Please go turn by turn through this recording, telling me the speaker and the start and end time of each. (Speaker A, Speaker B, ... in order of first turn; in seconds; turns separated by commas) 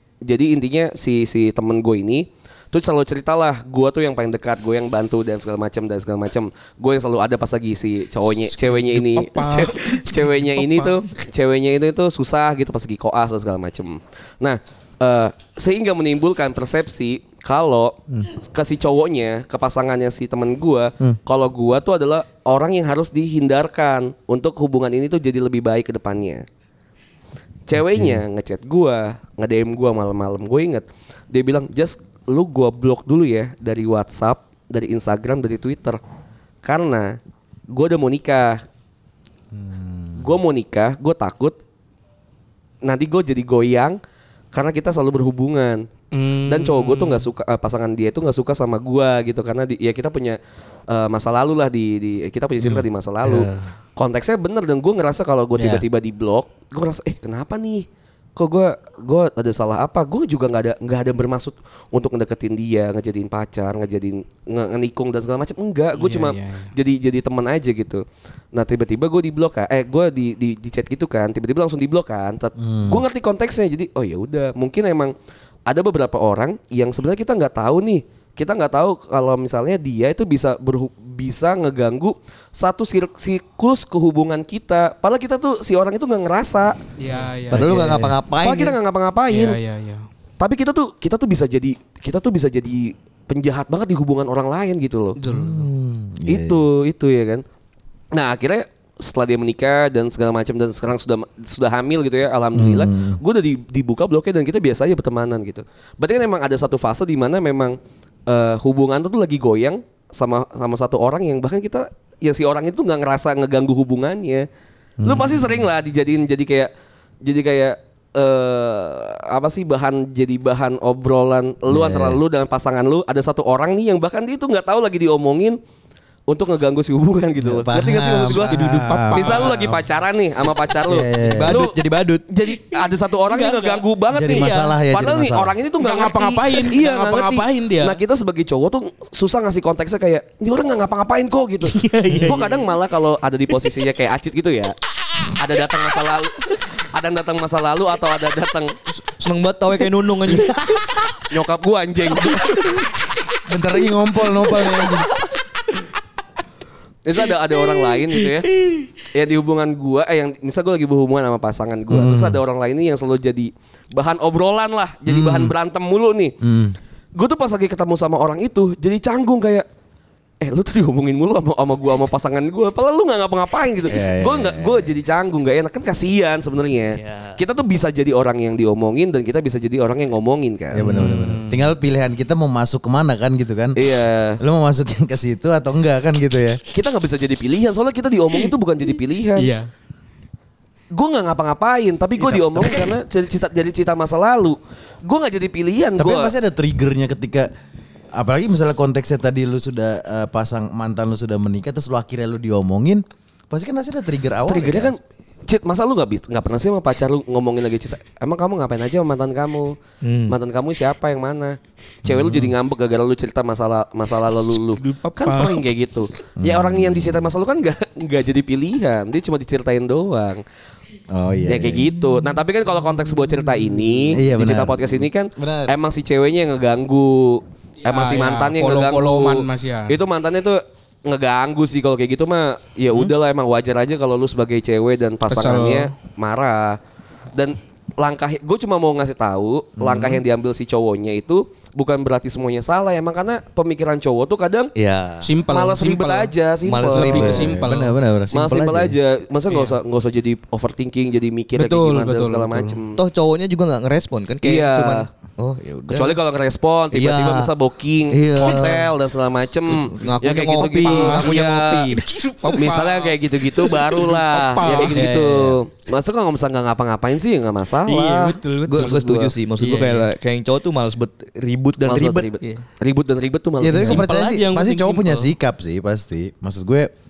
Speaker A: 0.2-26.4, Speaker B: 8.2-11.0, Speaker A: 27.7-36.0, Speaker C: 27.8-28.2, Speaker A: 36.6-37.2, Speaker A: 37.7-38.6, Speaker C: 39.5-40.3, Speaker A: 40.2-41.5, Speaker A: 42.8-44.0, Speaker A: 44.5-45.9, Speaker B: 46.1-47.3, Speaker A: 46.5-50.4, Speaker A: 50.9-75.1, Speaker C: 52.6-53.7, Speaker C: 55.6-55.9, Speaker B: 66.0-66.7, Speaker C: 72.6-73.0, Speaker A: 75.7-86.8, Speaker B: 87.0-88.1, Speaker D: 87.5-88.8, Speaker A: 88.4-89.6, Speaker B: 89.3-90.0, Speaker A: 90.4-95.2, Speaker B: 95.2-95.7, Speaker C: 95.2-96.6, Speaker A: 96.3-97.4, Speaker A: 98.1-107.8, Speaker C: 102.5-103.2, Speaker A: 108.3-114.5, Speaker C: 115.0-115.7, Speaker A: 115.0-116.7, Speaker A: 117.2-125.6, Speaker C: 121.7-122.2, Speaker A: 126.3-131.7, Speaker C: 127.4-129.8, Speaker B: 128.2-129.7, Speaker C: 130.9-131.7, Speaker D: 131.2-132.2, Speaker A: 132.3-148.8, Speaker B: 132.4-134.8, Speaker C: 134.1-135.6, Speaker B: 135.8-138.0, Speaker B: 141.6-142.7, Speaker D: 142.1-142.4, Speaker D: 149.1-150.6, Speaker C: 150.3-151.1, Speaker A: 151.3-152.8, Speaker C: 153.5-155.1, Speaker A: 157.1-158.5, Speaker A: 159.0-166.3, Speaker C: 161.9-162.4, Speaker C: 165.1-165.5, Speaker C: 166.4-166.8, Speaker A: 167.2-169.7, Speaker A: 170.4-180.8, Speaker C: 173.9-175.0, Speaker D: 176.9-177.4, Speaker C: 180.7-183.8, Speaker B: 180.8-181.7, Speaker A: 183.8-184.4, Speaker C: 184.4-186.6, Speaker A: 186.7-189.5, Speaker B: 189.4-189.7, Speaker A: 190.9-196.3, Speaker C: 192.2-192.9, Speaker C: 196.0-197.5, Speaker C: 198.2-205.0, Speaker A: 204.5-209.8, Speaker D: 210.0-210.4, Speaker A: 210.3-220.4, Speaker C: 212.1-212.6, Speaker B: 214.3-215.7, Speaker C: 216.4-217.3, Speaker C: 221.1-221.9, Speaker A: 221.5-236.8, Speaker C: 224.1-225.7, Speaker B: 227.8-230.0, Speaker B: 235.3-235.9, Speaker A: 237.3-244.7, Speaker C: 239.8-240.2, Speaker D: 244.8-245.3, Speaker B: 245.2-246.3, Speaker A: 245.5-247.8, Speaker D: 246.7-247.5, Speaker B: 246.8-247.9, Speaker C: 247.0-248.9, Speaker A: 248.3-253.0, Speaker B: 249.5-249.8, Speaker B: 251.6-252.8, Speaker D: 253.0-256.2, Speaker A: 254.4-255.1, Speaker A: 255.9-261.9, Speaker D: 256.9-257.5, Speaker D: 258.1-258.9, Speaker D: 259.7-262.0, Speaker B: 260.7-261.4, Speaker B: 261.9-265.1, Speaker A: 262.6-269.1, Speaker C: 264.7-265.6, Speaker B: 267.9-270.1, Speaker D: 268.7-272.3, Speaker A: 271.9-274.1, Speaker C: 273.6-276.9, Speaker B: 273.7-275.3